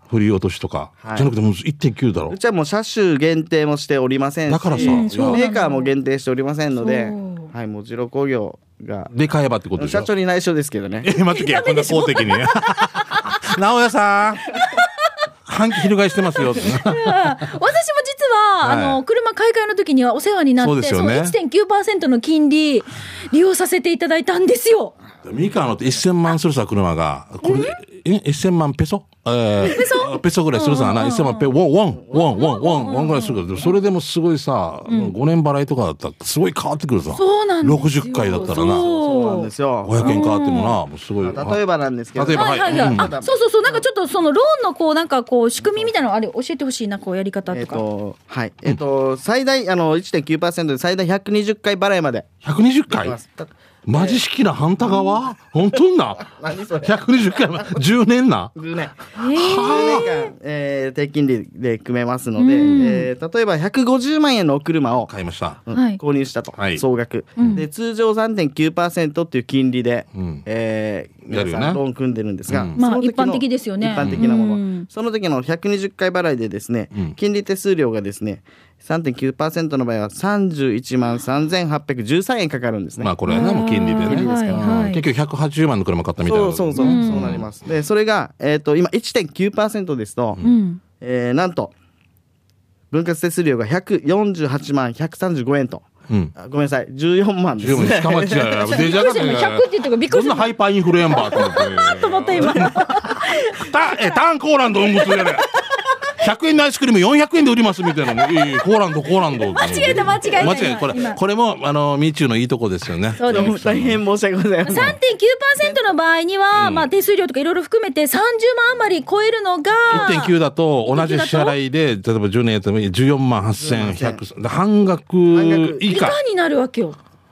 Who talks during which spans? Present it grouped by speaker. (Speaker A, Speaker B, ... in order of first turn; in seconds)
Speaker A: 0.1-2.4, 4.5-5.4, 9.1-10.1, 11.0-14.5, 15.5-17.4, 18.6-19.0, 20.6-21.4, 25.2-38.9, 39.8-41.6, 42.1-43.1, 52.4-53.2, 53.9-56.3, 56.8-58.5, 59.3-60.1, 65.1-65.6, 66.5-66.8, 70.1-70.4, 71.3-71.8, 72.5-72.8, 73.9-74.3, 83.0-87.5, 96.1-96.3, 97.6-114.0, 116.5-116.9, 119.9-126.2
Speaker B: 1.0-1.3, 2.3-9.1, 9.8-11.1, 32.0-32.3, 38.3-40.3, 41.2-43.8, 45.6-45.9, 47.5-52.3, 52.9-54.2, 56.2-57.8, 58.5-65.1, 65.6-83.3, 84.0-84.9, 86.2-90.4, 91.0-91.7, 92.9-98.6, 109.8-110.7, 113.2-115.0, 115.6-115.8, 123.5-124.2, 125.3-126.1
Speaker C: 4.7-5.9, 6.8-7.5, 11.3-13.4, 14.5-15.1, 16.5-24.9, 27.4-27.8, 29.6-31.5, 32.1-33.7, 34.9-35.1, 37.1-39.5, 40.0-40.8, 42.3-47.8, 59.1-60.3, 62.4-63.1, 65.7-66.0, 67.4-67.6, 72.8-74.9, 83.3-85.0, 86.8-87.4, 90.4-90.8, 98.6-104.1, 109.3-111.2, 113.2-113.5, 114.6-120.3, 120.9-121.5, 125.9-127.0